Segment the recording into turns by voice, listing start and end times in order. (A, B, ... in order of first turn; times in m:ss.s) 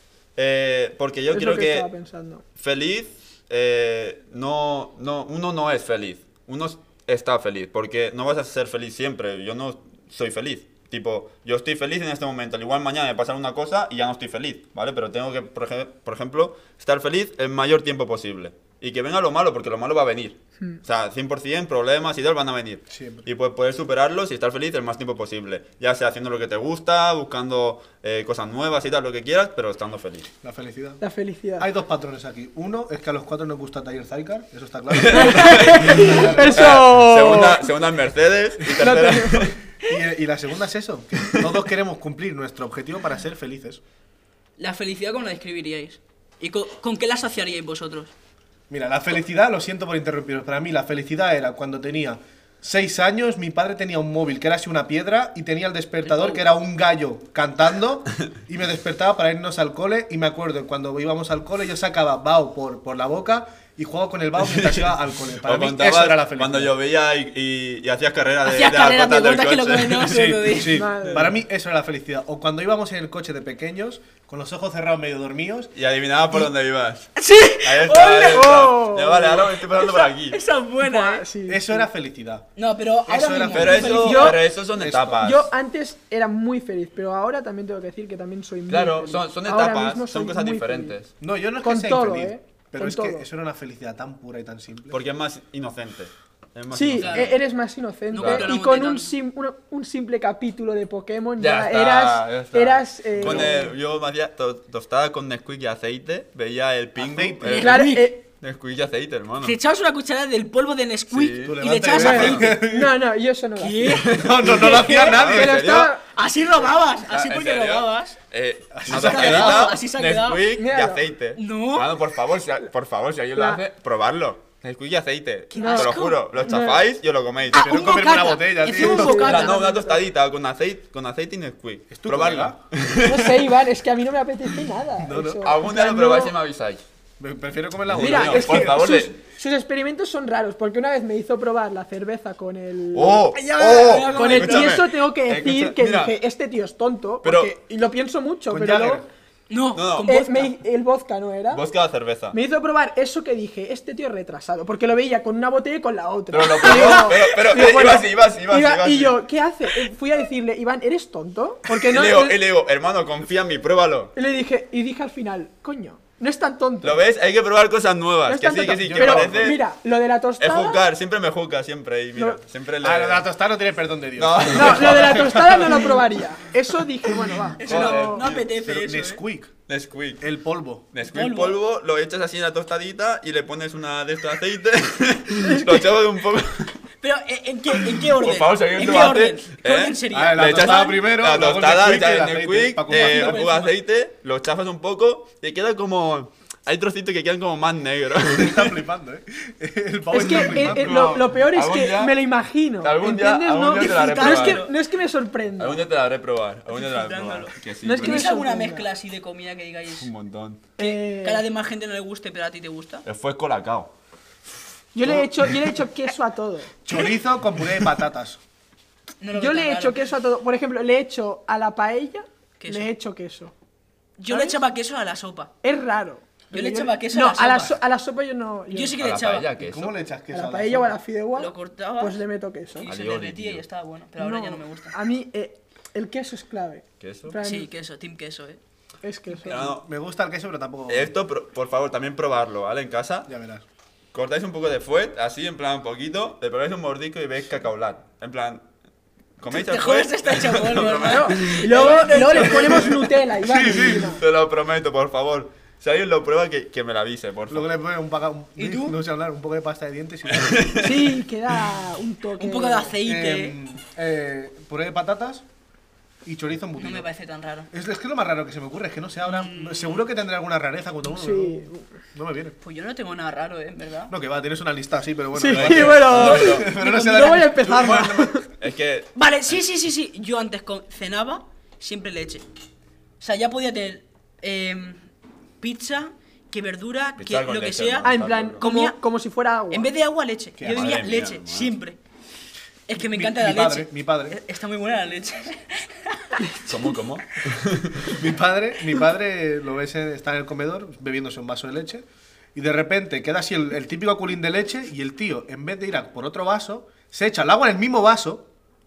0:00.4-0:01.9 A
0:01.3-0:02.4 B
0:02.6-0:30.3 A
0:22.9-0:23.2 C
0:30.4-0:31.0 C
0:31.0-0:31.7 B
0:31.6-0:36.8 C
0:34.9-0:39.5 A
0:35.1-0:37.7 B
0:38.7-0:39.5 B
0:39.8-0:43.8 C
0:44.6-0:48.1 D
0:48.7-1:06.7 C
0:56.0-0:56.4 D
1:04.4-1:10.3 A
1:08.4-1:10.8 D
1:10.0-1:15.7 C
1:10.7-1:11.4 B
1:11.0-1:11.3 A
1:15.7-1:17.1 A
1:17.2-1:18.7 D
1:17.6-1:20.4 A
1:18.1-1:19.5 B
1:19.6-1:21.3 D
1:20.8-1:21.9 B
1:21.4-1:22.5 C
1:22.6-1:24.4 D
1:23.1-1:25.3 C
1:23.5-1:25.5 A
1:24.0-1:24.4 B
1:25.2-1:30.9 B
1:28.7-1:31.1 A
1:31.2-1:35.0 C
1:31.6-1:33.2 B
1:34.9-1:37.3 A
1:36.7-1:43.7 B
1:37.0-1:37.4 D
1:38.1-1:39.1 D
1:38.2-1:38.5 A
1:41.4-1:49.6 A
1:43.2-1:43.5 C
1:47.0-1:47.6 C
1:47.4-1:48.1 D
1:47.6-1:48.2 B
1:49.4-1:52.6 D
1:51.1-1:51.6 A
1:51.4-1:52.9 C
1:52.0-1:54.0 B
1:52.1-1:52.5 A
1:53.6-1:55.2 D
1:53.8-1:56.0 A
1:54.0-1:55.7 C
1:55.2-1:56.0 B
1:56.0-1:58.2 D
1:57.1-2:07.7 A
1:58.7-1:59.8 C
1:58.9-2:00.5 D
2:00.5-2:01.0 B
2:01.4-2:01.9 D
2:03.3-2:03.6 B
2:05.5-2:06.2 D
2:05.6-2:06.8 B
2:07.5-2:09.7 D
2:07.5-2:09.3 C
2:08.6-2:10.0 B
2:09.2-2:13.5 A
2:11.9-2:12.6 C
2:13.0-2:16.3 B
2:15.0-2:15.5 C
2:15.4-2:16.8 A
2:17.2-2:18.8 C
2:17.9-2:19.2 A
2:18.0-2:29.0 B
2:22.9-2:26.2 A
2:23.4-2:24.8 D
2:27.2-2:27.5 A
2:28.5-2:29.0 C
2:29.5-2:30.5 D
2:29.7-2:30.1 A
2:30.0-2:31.6 B
2:31.5-2:32.4 A
2:32.3-2:42.4 B
2:36.3-2:39.2 A
2:41.8-2:44.1 A
2:44.1-2:47.0 B
2:46.8-2:49.6 A
2:48.3-2:50.8 B
2:48.7-2:49.5 C
2:50.4-2:53.3 A
2:52.8-2:56.0 C
2:54.2-2:55.8 A
2:54.5-2:58.2 B
2:57.1-2:57.4 C
2:57.6-2:59.2 D
2:57.6-2:58.5 A
2:58.4-2:59.5 C
2:59.7-3:00.2 A
3:00.2-3:00.8 C
3:00.9-3:06.8 A
3:01.0-3:01.6 D
3:05.4-3:05.9 B
3:07.0-3:10.9 D
3:07.7-3:18.8 A
3:10.1-3:13.4 C
3:12.9-3:13.7 D
3:18.3-3:21.1 C
3:20.1-3:25.8 B
3:20.2-3:22.2 A
3:22.8-3:24.6 A
3:23.7-3:24.7 D
3:25.6-3:28.3 A
3:26.7-3:30.1 D
3:27.8-3:28.9 B
3:30.0-3:30.6 A
3:30.8-3:31.4 B
3:30.8-3:33.0 D
3:33.0-3:33.9 A
3:34.9-3:36.7 B
3:35.0-3:35.5 C
3:36.8-3:38.4 C
3:39.2-3:40.0 D
3:39.4-3:43.5 B
3:42.6-3:42.9 D
3:44.2-3:45.5 D
3:44.3-3:44.6 B
3:45.6-3:49.0 B
3:46.5-3:47.8 D
3:48.7-3:49.5 D
3:49.0-3:49.9 A
3:49.6-3:50.9 C
3:50.3-3:52.9 B
3:51.4-3:52.2 D
3:52.8-3:55.0 D
3:52.8-3:53.6 A
3:54.2-3:57.7 B
3:57.0-3:57.4 A
3:57.4-3:58.6 D
3:59.0-3:59.7 B
3:59.4-3:59.8 A
3:59.7-4:01.1 C
4:00.9-4:03.3 A
4:03.3-4:03.6 C
4:04.1-4:08.6 A
4:09.4-4:13.2 A
4:09.5-4:13.0 D
4:11.0-4:14.2 B
4:13.4-4:14.1 C
4:13.7-4:17.7 A
4:17.5-4:20.6 C
4:18.6-4:19.0 D
4:20.3-4:21.2 A
4:20.8-4:22.9 B
4:22.4-4:23.6 D
4:23.0-4:25.4 C
4:26.2-4:27.0 C
4:26.8-4:27.7 D
4:27.7-4:32.6 C
4:29.2-4:30.0 D
4:31.1-4:31.8 B
4:32.6-4:34.1 D
4:34.1-4:38.0 C
4:35.3-4:38.4 B
4:35.5-4:36.7 A
4:36.1-4:37.5 D
4:37.5-4:39.6 A
4:39.2-4:42.4 D
4:43.2-4:45.0 D
4:45.6-4:49.0 D
4:47.2-4:48.6 A
4:48.0-4:49.9 B
4:49.7-4:52.0 D
4:50.6-4:50.9 C
4:50.7-4:51.8 A
4:52.9-4:56.4 D
4:53.0-4:54.4 C
4:56.4-4:56.7 B
4:56.6-4:58.2 A
4:58.2-5:08.4 C